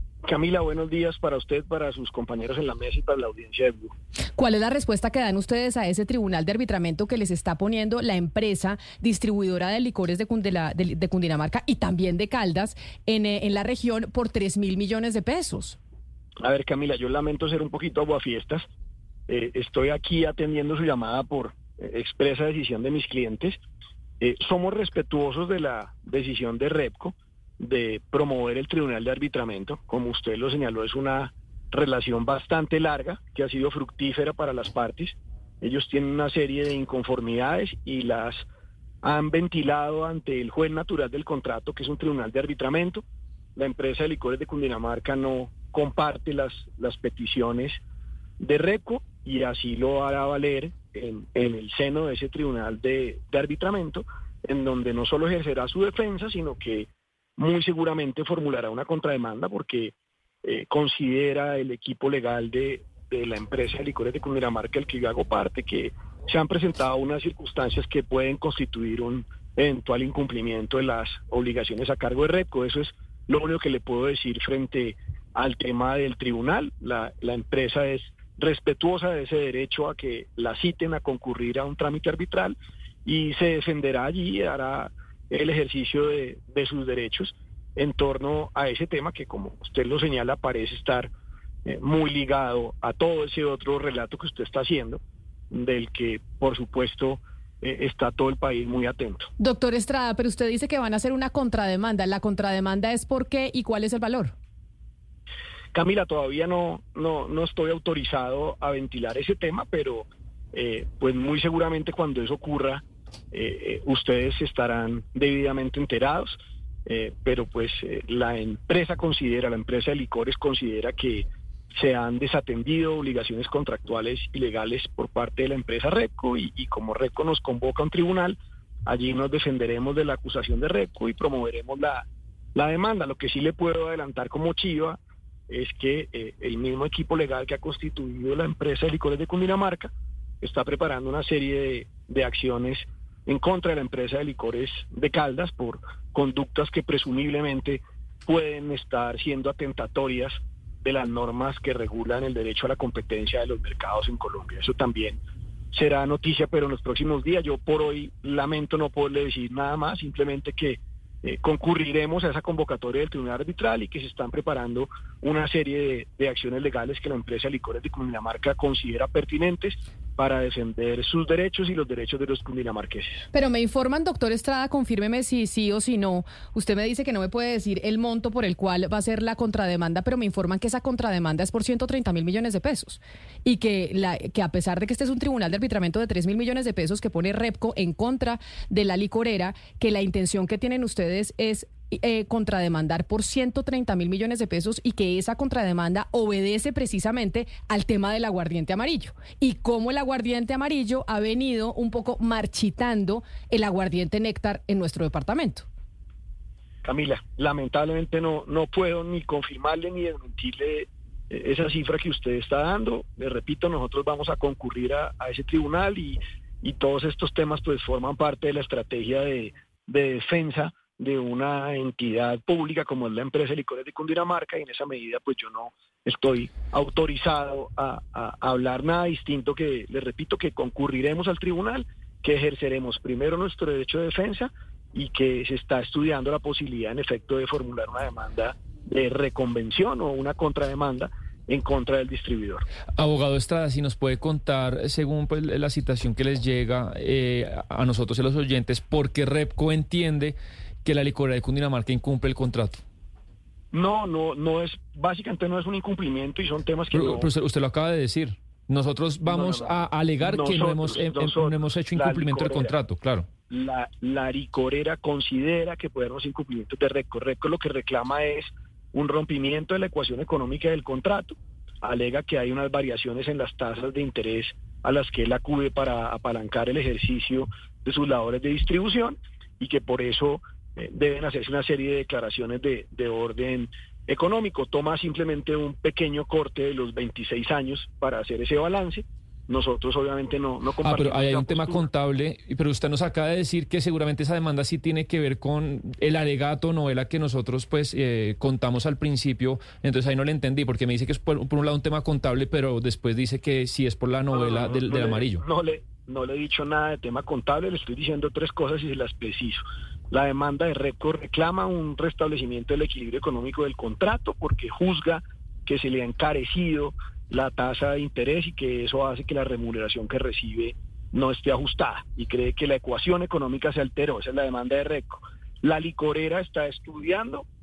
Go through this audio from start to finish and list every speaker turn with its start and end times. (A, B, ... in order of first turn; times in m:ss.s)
0:00.2-0:03.9 A
0:04.4-0:15.8 B
0:16.4-0:18.7 A
0:19.3-0:23.6 A
0:24.2-0:38.5 A
0:39.0-0:43.0 A
0:43.6-0:47.8 A
0:48.4-1:31.1 A
1:31.6-1:39.3 A
1:39.4-1:44.3 B
1:45.7-2:35.2 A
2:35.7-2:53.2 A
2:53.3-3:25.7 B
3:26.8-4:02.6 A
4:03.0-4:12.8 C
4:13.7-4:17.3 A
4:16.9-4:23.3 C
4:19.2-4:22.7 A
4:23.5-4:51.8 A
4:50.8-5:05.4 C
5:04.3-5:27.4 A